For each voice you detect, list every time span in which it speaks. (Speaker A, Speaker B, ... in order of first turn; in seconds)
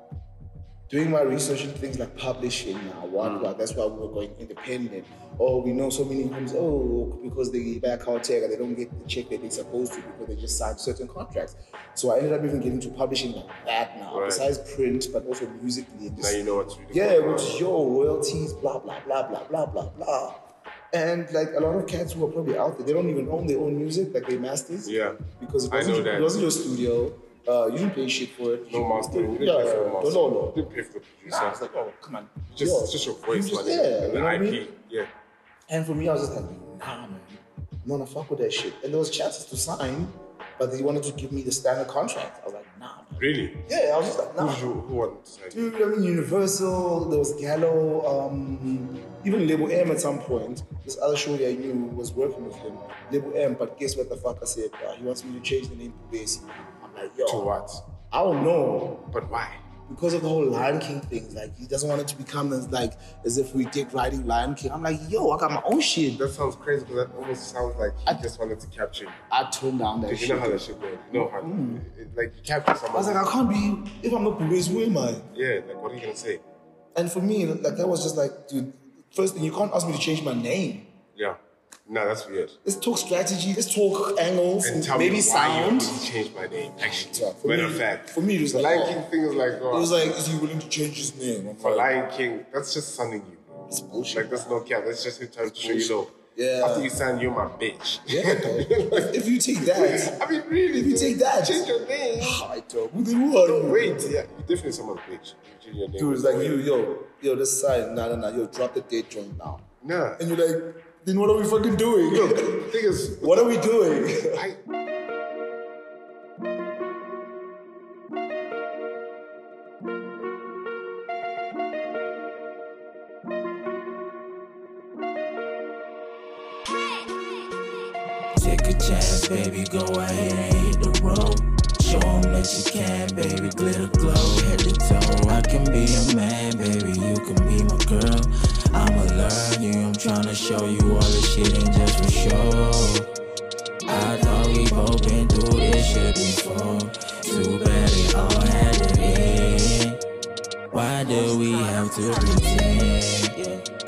Speaker A: 0.9-16.4, 16.9-30.7, 31.2-34.7, 35.7-44.6, 45.5-57.5, 58.1-59.1, 59.9-66.2, 69.3-71.8, 72.9-75.3, 76.9-80.9, 82.6-86.0, 86.8-89.0, 89.7-91.9, 93.7-94.6, 95.5-96.9, 98.1-100.2, 100.7-104.1, 106.0-109.6, 110.2-114.4
Speaker B: 3.2-3.5, 14.1-14.5, 16.2-17.6, 24.8-26.4, 28.7-31.6, 32.5-35.1, 43.2-43.7, 44.3-45.6, 57.2-57.8, 59.1-59.6, 66.2-69.2, 70.1-73.3, 75.3-76.4, 81.1-82.6, 84.6-90.0, 91.6-93.5, 94.1-102.4, 103.4-106.6, 109.8-110.2, 112.1-114.6
Speaker C: 128.3-143.1, 143.9-150.0, 150.7-153.6